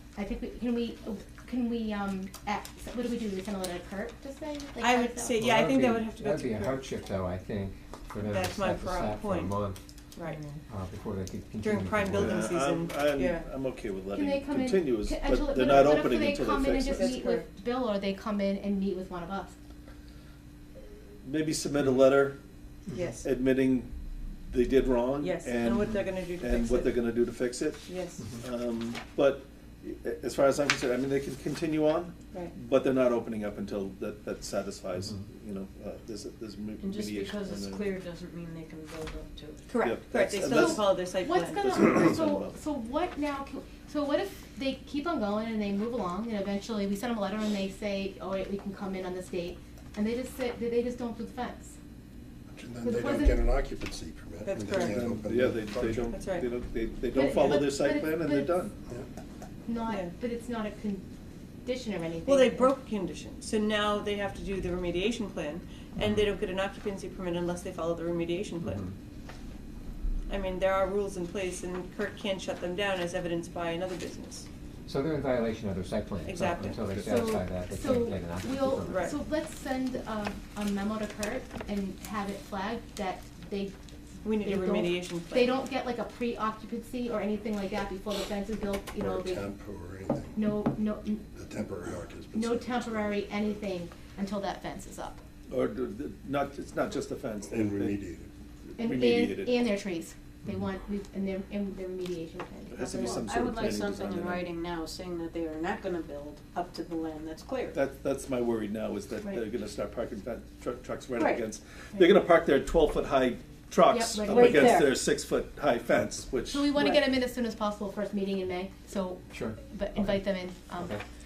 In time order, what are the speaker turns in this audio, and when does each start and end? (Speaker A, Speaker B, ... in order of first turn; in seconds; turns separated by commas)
Speaker A: 0.2-5.4, Speaker B: 4.8-6.9, Speaker C: 5.4-9.8, Speaker B: 8.2-9.5, Speaker D: 10.3-10.6, Speaker C: 10.7-12.4, Speaker B: 11.6-13.5, Speaker E: 12.1-17.1, Speaker A: 14.1-19.5, Speaker B: 16.9-17.5, Speaker E: 21.2-22.4, Speaker B: 22.9-23.3, Speaker E: 23.2-23.9, Speaker E: 24.5-38.0, Speaker B: 25.2-27.0, Speaker B: 27.9-28.3, Speaker D: 36.8-39.8, Speaker B: 39.7-41.6, Speaker E: 39.8-42.6, Speaker A: 40.5-51.8, Speaker F: 52.5-56.1, Speaker A: 52.8-53.5, Speaker B: 54.5-55.0, Speaker E: 54.8-58.8, Speaker B: 56.1-56.5, Speaker A: 57.1-58.8, Speaker A: 59.6-61.0, Speaker A: 61.6-62.7, Speaker B: 62.2-68.9, Speaker C: 66.0-66.2, Speaker C: 68.6-68.9, Speaker B: 70.3-74.5, Speaker C: 74.9-79.2, Speaker B: 76.3-76.9, Speaker E: 76.8-77.2, Speaker A: 77.0-83.8, Speaker B: 78.8-79.2, Speaker B: 84.2-85.6, Speaker A: 84.3-89.6, Speaker F: 89.0-90.4, Speaker A: 90.3-91.3, Speaker F: 91.3-93.2, Speaker A: 92.3-95.2, Speaker E: 95.5-98.0, Speaker F: 97.5-98.3, Speaker E: 98.7-99.8, Speaker A: 98.8-103.9, Speaker E: 102.7-104.5, Speaker D: 103.2-107.8, Speaker E: 107.7-116.8, Speaker D: 111.2-111.4, Speaker A: 113.8-114.8, Speaker D: 114.3-115.0, Speaker A: 116.5-121.0, Speaker D: 116.8-117.0, Speaker C: 119.3-120.2